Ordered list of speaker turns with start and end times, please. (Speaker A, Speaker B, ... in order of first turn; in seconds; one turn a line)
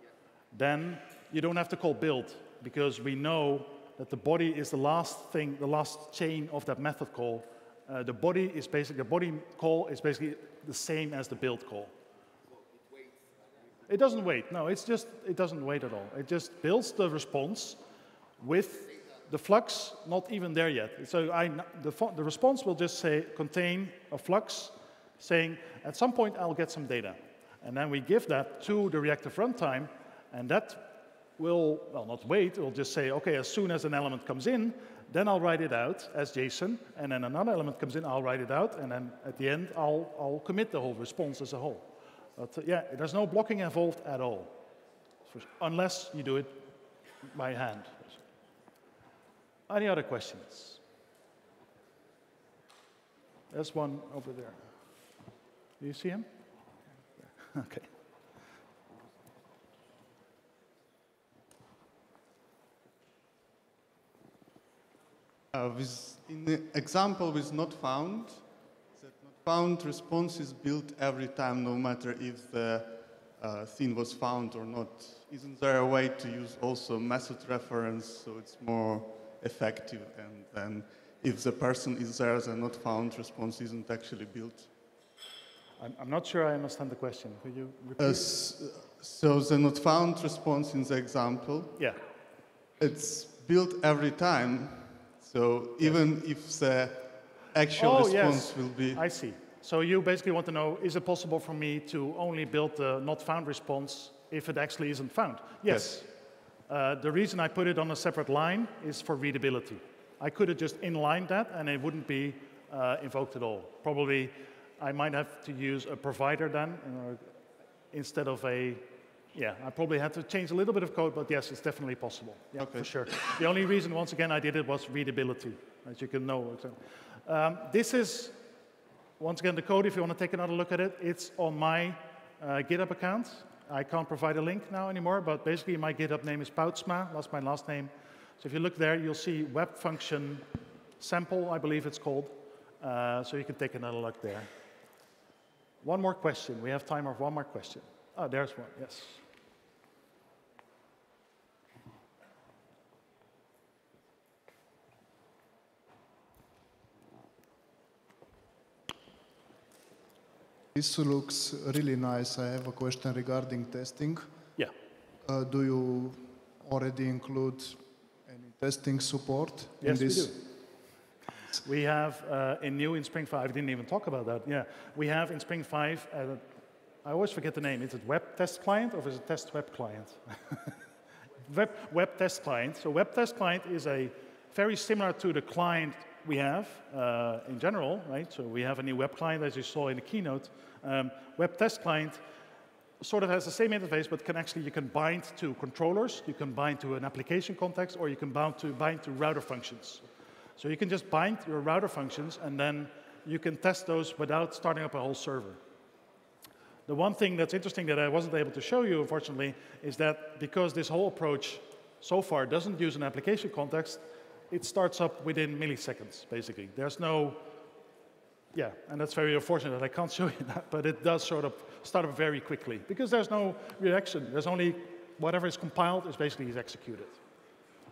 Speaker A: 0.5-11.9
Speaker A: 13.9-17.8
Speaker A: 18.4-44.6
Speaker A: 45.3-48.2
Speaker A: 49.7-50.8
Speaker A: 53.5-54.7
Speaker A: 55.8-56.3
Speaker A: 57.2-57.9
Speaker B: 65.5-84.7
Speaker A: 85.8-88.3
Speaker B: 88.0-91.8
Speaker B: 92.8-99.0
Speaker A: 97.8-106.1
Speaker B: 105.7-106.0
Speaker A: 106.7-117.4
Speaker A: 117.9-128.4
Speaker B: 122.6-122.9
Speaker A: 129.2-140.4
Speaker A: 141.0-144.5
Speaker A: 145.8-149.2
Speaker C: 160.7-164.5
Speaker C: 165.2-170.6
Speaker A: 169.8-170.6
Speaker A: 171.6-176.5
Speaker A: 177.0-180.8
Speaker A: 181.4-192.2
Speaker A: 193.0-200.0
Speaker A: 200.6-205.6
Speaker A: 206.9-217.6
Speaker A: 218.5-227.2